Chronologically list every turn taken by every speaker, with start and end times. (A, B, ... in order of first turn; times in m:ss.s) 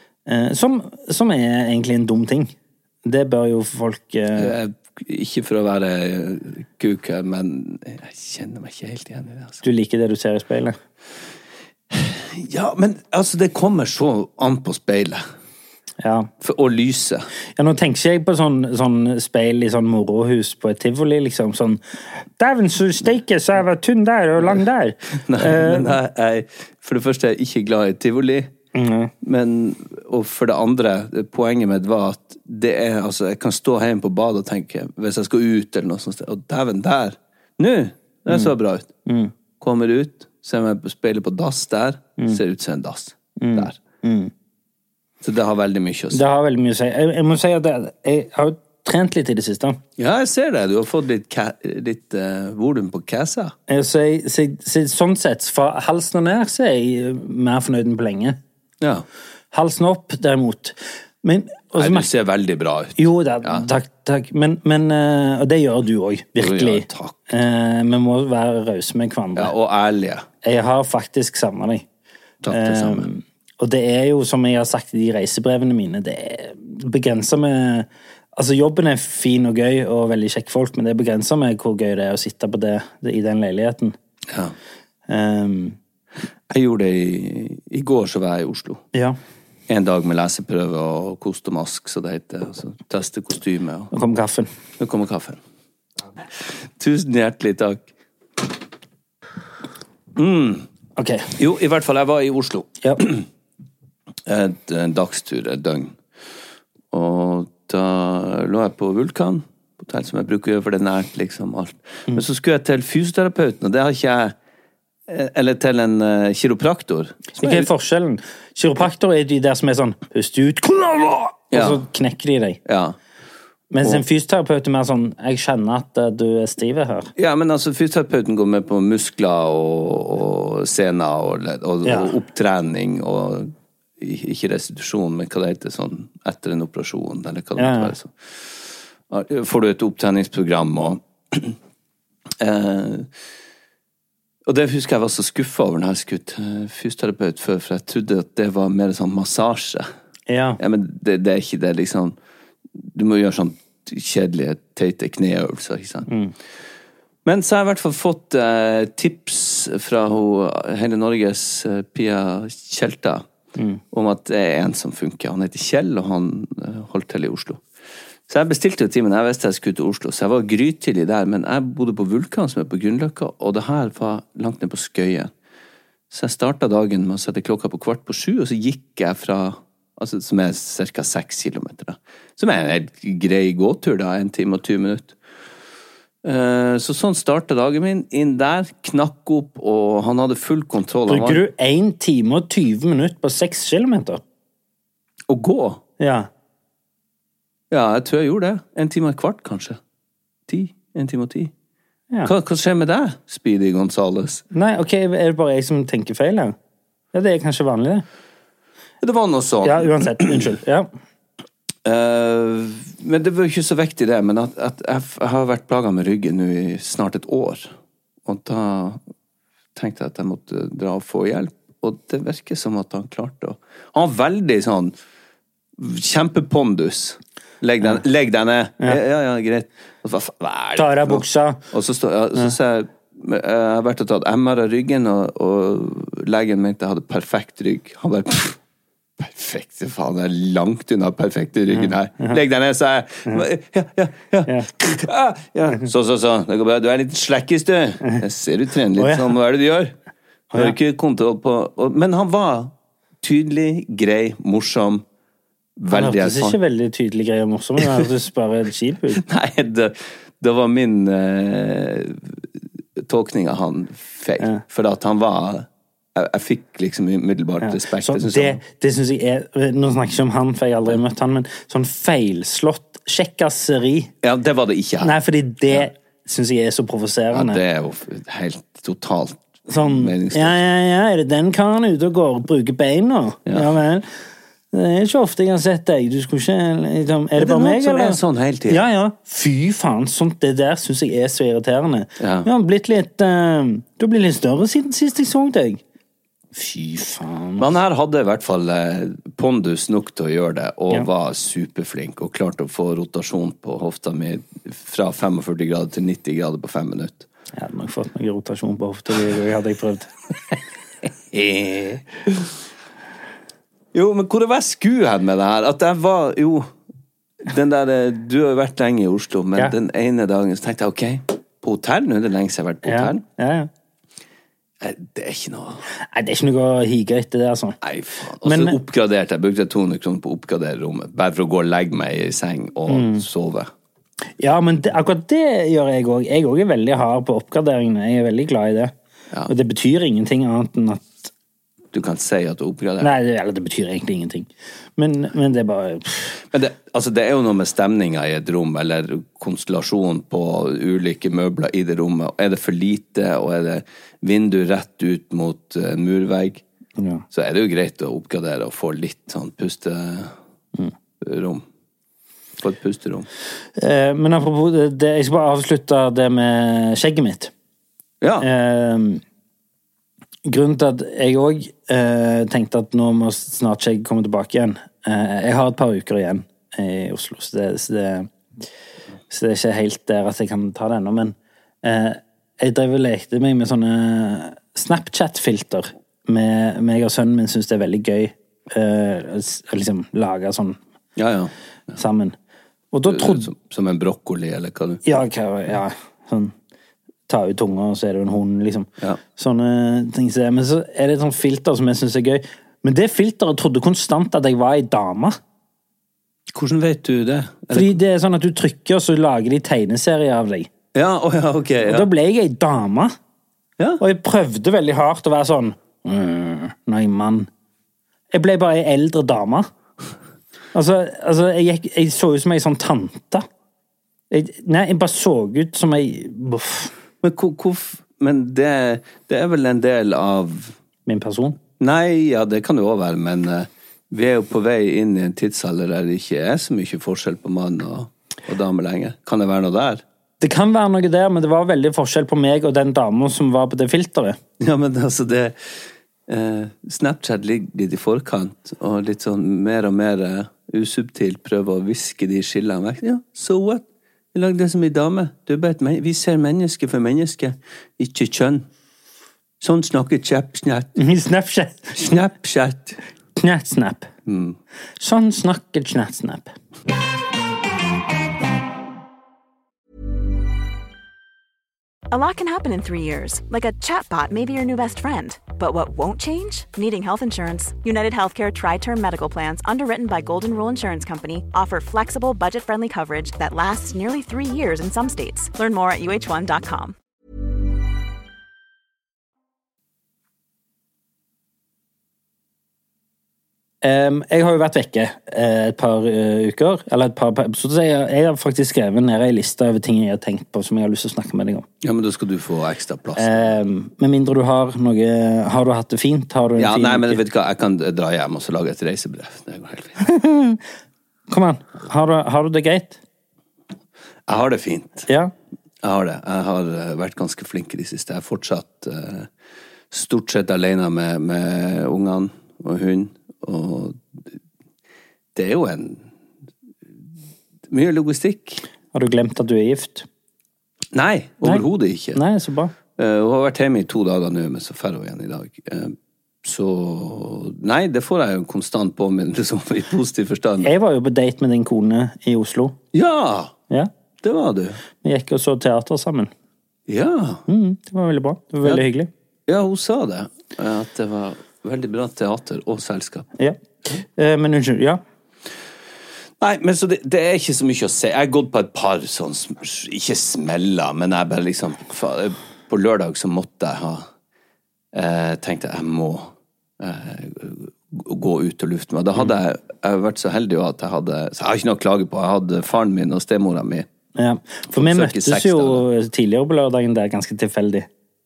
0:00.3-0:02.5 A
0:03.0-0:04.6 A
0:04.4-0:09.6 B
0:09.6-0:10.8 A
0:11.9-0:15.2 B
0:16.0-0:16.3 A
0:16.4-0:17.3 B
0:17.6-0:26.0 A
0:25.2-0:28.5 B
0:28.7-0:29.1 A
0:29.2-0:38.9 B
0:39.1-0:39.3 A
0:39.6-0:43.8 B
0:43.4-0:44.3 A
0:45.2-0:46.2 B
0:46.1-0:49.8 A
0:50.0-0:53.5 B
0:53.7-0:58.4 A
0:59.5-1:02.1 A
1:01.8-1:03.7 B
1:03.0-1:09.5 A
1:06.4-1:07.2 B
1:09.4-1:10.3 B
1:10.4-1:11.9 A
1:12.4-1:13.1 B
1:12.5-1:24.0 A
1:24.3-1:24.5 B
1:25.1-1:25.8 A
1:26.5-1:28.8 B
1:29.7-1:33.9 B
1:33.9-1:34.5 A
1:34.8-1:35.4 B
1:36.4-1:37.9 B
1:40.2-1:40.7 B
1:41.0-1:41.4 A
1:41.4-1:43.3 B
1:44.3-1:46.0 B
1:46.9-1:54.4 B
1:55.1-1:57.7 B
1:57.4-2:02.6 A
2:01.5-2:01.8 B
2:02.6-2:03.0 B
2:03.7-2:07.1 A
2:07.2-2:21.6 B
2:11.8-2:12.1 A
2:17.6-2:17.9 A
2:22.4-2:23.1 B
2:24.5-2:29.9 B
2:30.3-2:30.6 A
2:30.6-2:32.2 B
2:32.8-2:36.1 B
2:36.1-2:36.4 A
2:37.2-2:43.2 B
2:43.6-2:43.8 A
2:43.9-2:47.6 B
2:48.3-2:55.3 B
2:56.1-3:05.2 B
3:06.2-3:11.4 B
3:11.1-3:14.2 A
3:15.3-3:15.8 B
3:16.0-3:16.3 A
3:17.7-3:19.8 B
3:20.5-3:21.5 B
3:22.2-3:24.4 B
3:24.5-3:26.6 A
3:27.1-3:28.0 A
3:29.0-3:30.5 B
3:29.6-3:30.9 A
3:31.8-3:37.7 B
3:38.2-3:39.0 B
3:39.8-3:44.9 B
3:45.8-3:58.6 B
3:50.8-3:51.6 A
3:59.2-4:10.0 B
4:01.7-4:02.4 A
4:09.0-4:09.3 A
4:10.6-4:15.0 B
4:15.8-4:16.6 B
4:15.9-4:19.2 A
4:17.8-4:18.0 B
4:19.1-4:28.6 B
4:27.6-4:34.1 A
4:34.2-4:35.2 B
4:35.0-4:37.6 A
4:37.3-4:40.6 B
4:39.7-4:44.1 A
4:44.7-4:55.8 A
4:47.4-4:48.8 B
4:52.2-4:52.5 B
4:56.6-4:57.7 A
4:57.6-5:07.3 B
5:07.6-5:10.1 A
5:11.3-5:12.4 B
5:13.9-5:16.7 B
5:17.4-5:23.2 B
5:22.8-5:23.7 A
5:24.8-5:25.8 B
5:26.1-5:27.8 A
5:27.8-5:33.7 B
5:28.4-5:28.8 A
5:32.9-5:33.2 A
5:34.4-5:38.9 A
5:39.5-5:41.3 A
5:41.9-5:43.1 B
5:43.0-5:46.4 A
5:46.5-5:56.6 B
5:57.0-5:57.2 A
5:57.3-6:00.3 B
6:01.2-6:01.6 B
6:02.6-6:03.3 B
6:03.8-6:07.5 A
6:08.2-6:08.5 B
6:08.4-6:09.2 A
6:10.4-6:18.3 A
6:19.3-6:30.8 A
6:31.2-6:32.0 B
6:32.0-6:32.4 A
6:32.9-6:33.5 A
6:33.1-6:35.1 B
6:35.0-6:36.6 A
6:37.3-6:45.4 A
6:46.5-6:48.0 B
6:47.7-6:50.7 A
6:50.9-6:52.1 B
6:51.8-6:53.1 A
6:54.0-6:57.5 A
6:58.3-6:59.7 A
7:00.7-7:03.5 A
7:04.3-7:06.9 A
7:07.2-7:10.8 B
7:11.1-7:11.6 A
7:11.8-7:20.0 B
7:20.4-7:24.4 A
7:24.6-7:25.6 B
7:26.3-7:38.7 B
7:39.6-7:41.0 B
7:41.0-7:42.0 A
7:41.9-7:43.0 B
7:43.4-7:44.1 A
7:44.3-7:44.6 B
7:45.0-7:46.5 A
7:52.1-8:07.0 C
8:13.8-8:21.7 A
8:21.8-8:23.6 B
8:23.2-8:27.2 A
8:26.6-8:30.0 B
8:30.0-8:30.6 A
8:31.3-8:33.0 A
8:34.3-8:35.1 B
8:35.1-8:35.3 A
8:35.8-8:39.3 B
8:39.9-8:44.3 B
8:45.4-8:46.1 B
8:47.7-8:48.6 B
8:48.9-8:50.1 A
8:50.9-8:52.2 B
8:51.4-8:52.7 A
8:53.0-9:00.7 B
9:00.6-9:02.8 A
9:02.9-9:03.5 B
9:04.2-9:04.8 B
9:05.0-9:06.3 A
9:06.9-9:07.4 B
9:07.5-9:09.1 A
9:09.5-9:13.3 B
9:13.4-9:15.0 A
9:16.4-9:24.1 B
9:24.9-9:33.9 B
9:34.2-9:37.9 A
9:34.7-9:35.9 B